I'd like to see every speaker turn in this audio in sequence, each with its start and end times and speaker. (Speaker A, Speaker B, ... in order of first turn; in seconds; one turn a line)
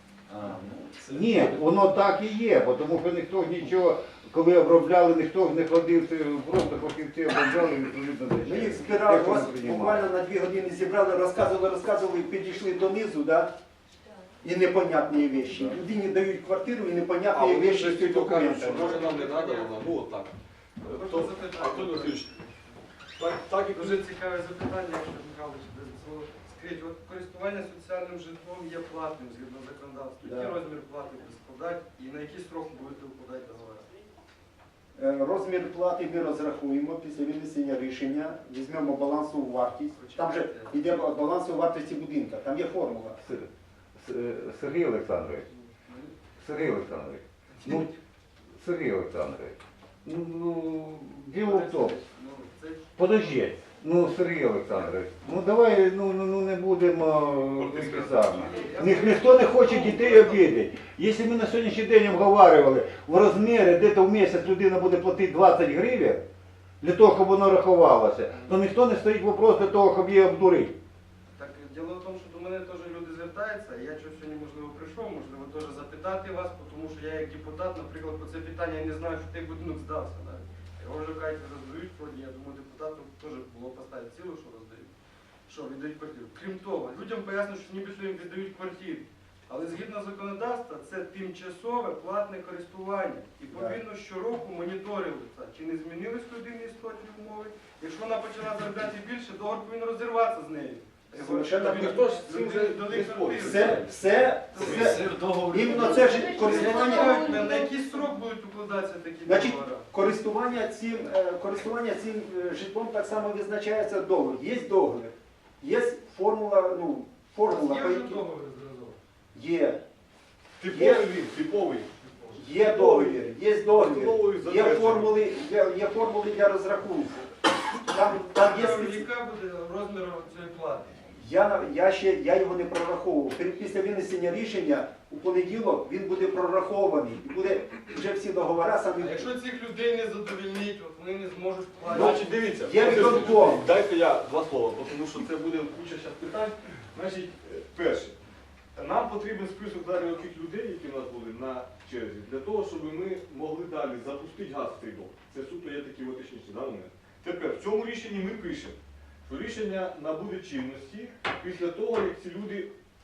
Speaker A: 0.3-1.6
Speaker B: 1.1-10.1
Speaker C: 8.4-13.5
Speaker C: 14.4-18.9
Speaker D: 17.3-22.3
Speaker E: 18.7-19.8
Speaker E: 20.9-22.5
Speaker D: 23.2-24.0
Speaker E: 23.7-33.9
Speaker C: 30.2-30.6
Speaker C: 35.0-43.2
Speaker E: 39.9-40.8
Speaker B: 43.2-45.5
Speaker E: 45.6-46.1
Speaker B: 46.4-47.9
Speaker E: 47.6-47.9
Speaker B: 48.6-52.0
Speaker E: 51.4-53.4
Speaker B: 53.0-66.2
Speaker D: 57.6-58.2
Speaker E: 58.2-60.5
Speaker B: 66.8-70.8
Speaker E: 68.3-68.6
Speaker E: 71.4-84.9
Speaker E: 85.5-103.8
Speaker C: 93.5-93.8
Speaker C: 101.1-102.0
Speaker D: 101.6-104.0
Speaker C: 103.4-107.6
Speaker A: 104.5-106.5
Speaker D: 104.6-104.9
Speaker E: 106.4-109.9
Speaker C: 109.2-118.2
Speaker E: 117.5-119.0
Speaker C: 119.3-119.8
Speaker D: 120.6-121.9
Speaker C: 120.7-121.1
Speaker C: 122.3-127.3
Speaker D: 122.5-125.2
Speaker C: 127.8-129.1
Speaker E: 128.2-130.9
Speaker C: 131.1-139.3
Speaker E: 139.0-143.5
Speaker D: 141.9-148.2
Speaker C: 141.9-143.6
Speaker D: 148.8-162.7